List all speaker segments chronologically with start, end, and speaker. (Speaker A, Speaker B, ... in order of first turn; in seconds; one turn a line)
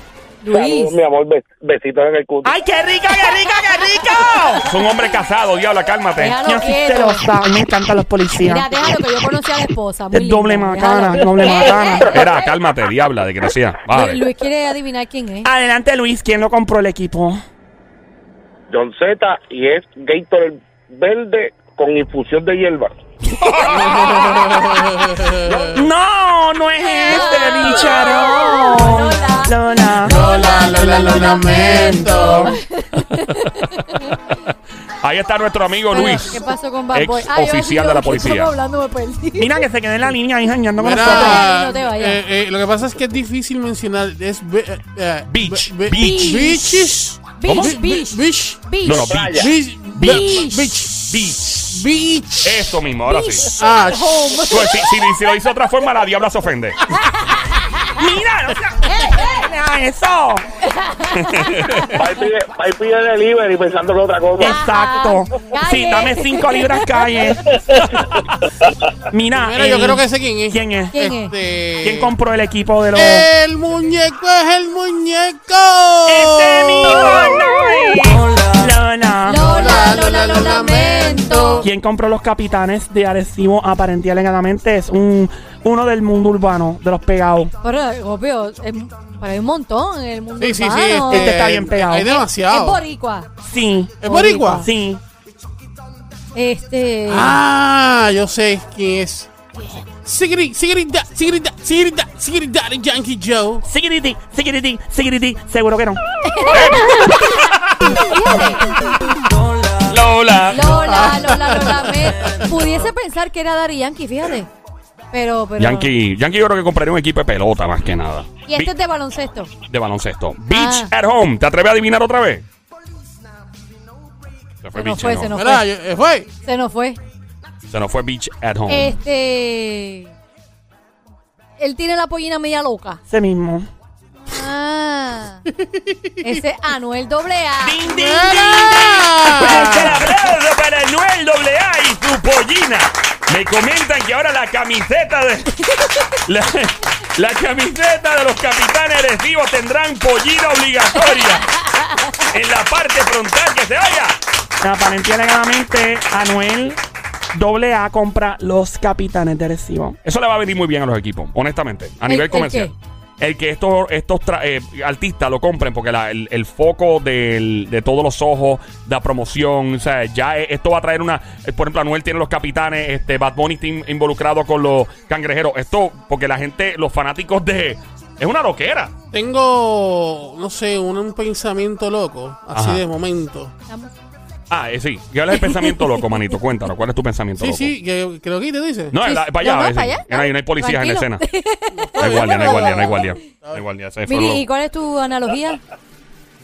Speaker A: 0.4-0.9
Speaker B: 0.5-2.5
Speaker C: 2.4-4.6
Speaker A: 4.2-4.7
Speaker D: 4.7-6.4
Speaker A: 6.2-7.2
Speaker C: 6.4-8.7
Speaker A: 8.4-12.3
Speaker C: 10.1-12.1
Speaker D: 12.1-14.2
Speaker A: 13.9-15.5
Speaker C: 15.4-17.4
Speaker B: 18.7-22.9
Speaker D: 23.4-24.2
Speaker E: 23.6-25.8
Speaker B: 25.4-25.8
Speaker C: 25.7-30.4
Speaker A: 26.9-34.1
Speaker E: 30.0-32.5
Speaker C: 31.5-32.5
Speaker D: 35.0-36.4
Speaker A: 35.9-39.6
Speaker D: 36.9-38.5
Speaker C: 39.4-41.5
Speaker E: 40.8-48.6
Speaker A: 41.0-42.2
Speaker D: 45.3-46.6
Speaker A: 45.9-49.2
Speaker D: 47.4-47.8
Speaker D: 48.8-50.3
Speaker B: 49.1-49.5
Speaker E: 49.4-52.7
Speaker A: 50.0-50.7
Speaker D: 51.1-51.6
Speaker D: 52.4-53.5
Speaker A: 53.1-54.9
Speaker E: 53.6-54.5
Speaker D: 54.5-56.8
Speaker A: 57.0-57.9
Speaker C: 57.9-60.5
Speaker A: 58.9-59.2
Speaker A: 60.6-62.0
Speaker D: 61.1-61.9
Speaker B: 61.9-64.6
Speaker C: 64.4-67.7
Speaker A: 64.4-67.2
Speaker C: 69.1-70.9
Speaker E: 69.3-72.1
Speaker A: 70.9-71.3
Speaker C: 71.8-73.3
Speaker E: 72.9-77.3
Speaker C: 76.1-79.5
Speaker A: 79.2-81.7
Speaker E: 79.4-81.7
Speaker C: 81.6-87.5
Speaker A: 87.6-91.4
Speaker E: 90.4-92.8
Speaker C: 91.1-92.2
Speaker A: 92.0-93.3
Speaker C: 93.4-94.0
Speaker E: 94.0-94.7
Speaker A: 94.0-94.7
Speaker C: 94.6-95.0
Speaker A: 96.3-97.4
Speaker E: 97.1-99.3
Speaker E: 99.9-103.6
Speaker C: 103.6-106.0
Speaker A: 106.2-107.5
Speaker D: 106.5-107.9
Speaker A: 108.0-108.8
Speaker D: 109.9-111.1
Speaker A: 110.5-114.5
Speaker E: 110.8-112.5
Speaker A: 115.1-115.9
Speaker D: 115.6-118.7
Speaker A: 118.5-119.5
Speaker D: 119.7-122.4
Speaker A: 120.5-120.9
Speaker D: 124.6-125.3
Speaker A: 124.8-125.7
Speaker E: 125.3-126.3
Speaker A: 126.4-127.0
Speaker D: 127.7-128.9
Speaker A: 128.7-130.1
Speaker A: 131.6-133.0
Speaker C: 133.1-133.7
Speaker A: 134.2-135.4
Speaker E: 135.6-136.4
Speaker A: 136.2-137.8
Speaker C: 137.6-140.1
Speaker E: 137.8-140.0
Speaker D: 139.4-145.6
Speaker D: 146.2-151.5
Speaker A: 151.6-152.1
Speaker D: 152.3-154.2
Speaker C: 154.6-156.8
Speaker C: 157.3-160.0
Speaker D: 160.0-178.9
Speaker A: 162.1-162.7
Speaker E: 179.1-183.5
Speaker D: 182.5-182.8
Speaker A: 183.7-183.9
Speaker D: 184.5-187.7
Speaker A: 185.3-186.1
Speaker E: 187.4-188.9
Speaker D: 188.9-191.2
Speaker A: 189.0-193.1
Speaker E: 191.7-193.6
Speaker D: 192.0-194.4
Speaker A: 194.1-195.6